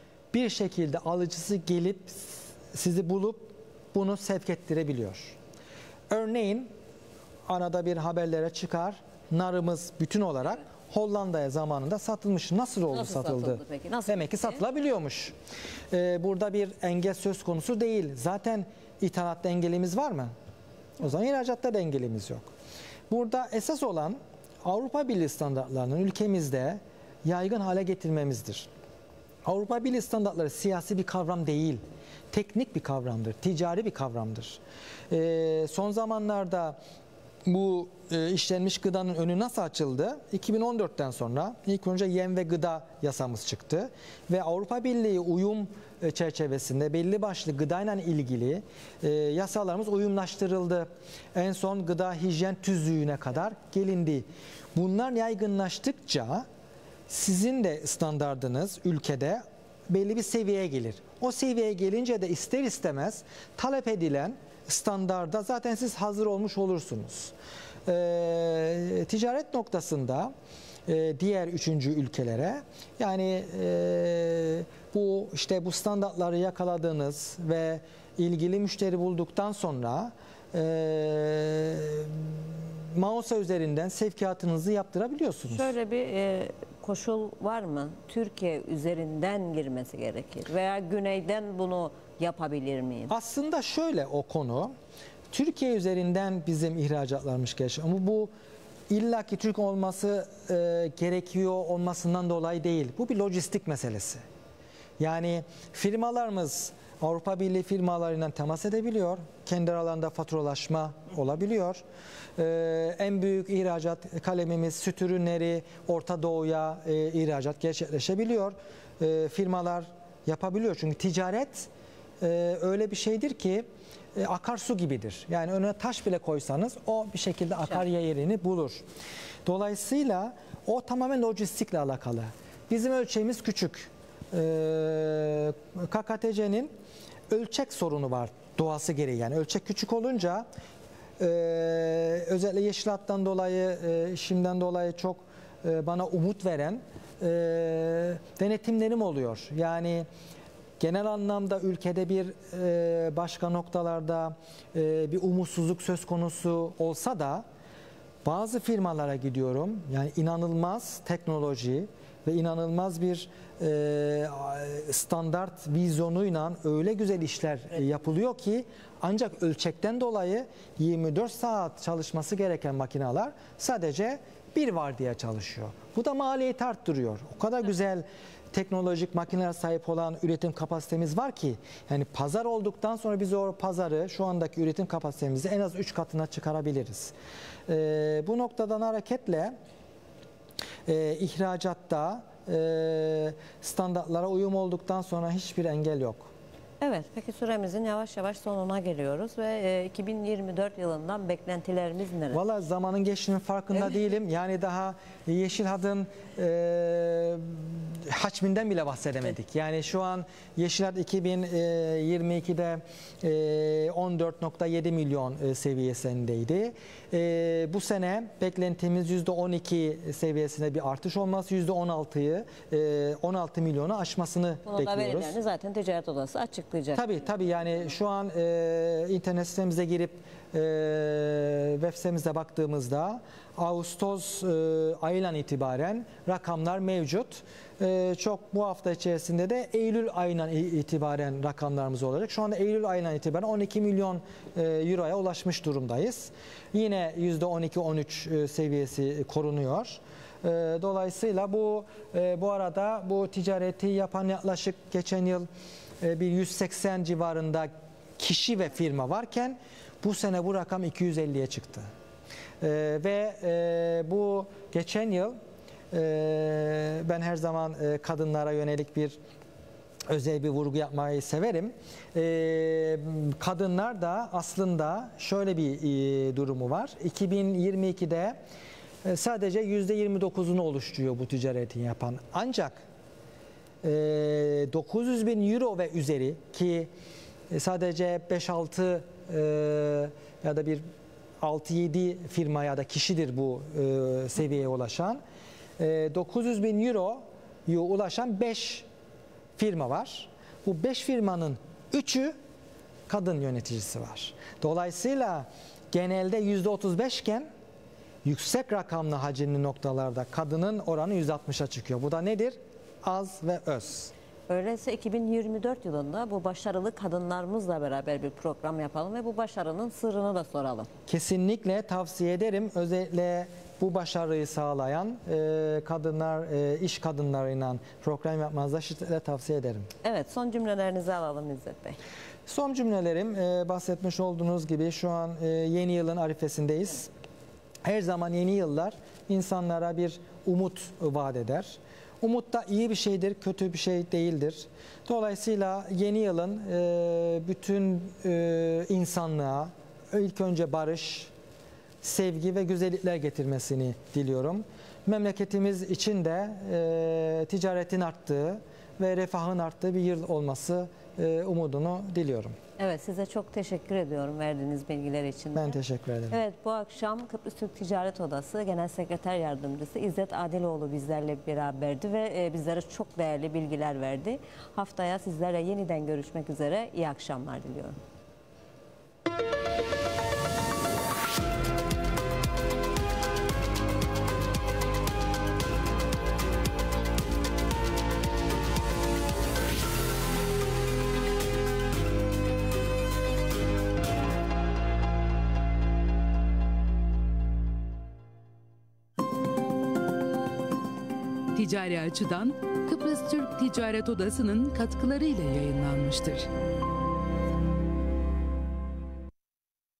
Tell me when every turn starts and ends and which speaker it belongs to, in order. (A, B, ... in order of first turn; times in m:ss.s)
0:00.3-0:05.4 A
0:06.1-0:06.7 A
0:07.5-0:15.3 A
0:12.9-0:14.6 B
0:15.9-0:20.3 A
0:21.0-0:22.5 A
0:23.1-0:28.7 A
0:29.4-0:36.8 A
0:37.4-0:56.4 A
0:57.1-1:07.3 A
1:07.8-1:10.3 A
1:10.9-1:25.7 A
1:25.5-1:33.1 B
1:33.1-1:34.7 A
1:35.3-1:38.3 A
1:38.9-1:44.2 A
1:45.0-1:51.8 A
1:52.4-2:01.7 A
2:02.2-2:08.8 A
2:09.4-2:16.7 A
2:17.3-2:20.4 A
2:21.2-2:30.1 A
2:30.8-2:37.4 A
2:38.2-3:07.1 A
3:07.7-3:09.5 A
3:10.8-3:16.3 A
3:16.8-3:22.4 B
3:22.3-3:45.4 A
3:44.6-3:47.1 B
3:46.9-4:15.5 A
4:16.0-4:21.9 A
4:22.6-4:25.4 A
4:25.9-4:29.2 A
4:30.1-4:38.4 A
4:39.0-4:42.8 A
4:43.8-4:46.9 A
4:47.5-4:50.8 A
4:51.4-4:55.2 A
4:55.8-4:58.9 A
4:59.6-5:02.3 A
5:03.1-5:07.5 A
5:08.2-5:14.1 A
5:14.5-5:20.9 B
5:21.1-5:29.9 A
5:30.0-5:32.0 B
5:32.4-5:37.1 A
5:37.8-5:51.3 A
5:52.0-6:02.6 A
6:02.8-6:05.8 B
6:05.5-6:06.4 A
6:06.3-6:18.0 B
6:41.5-6:46.5 C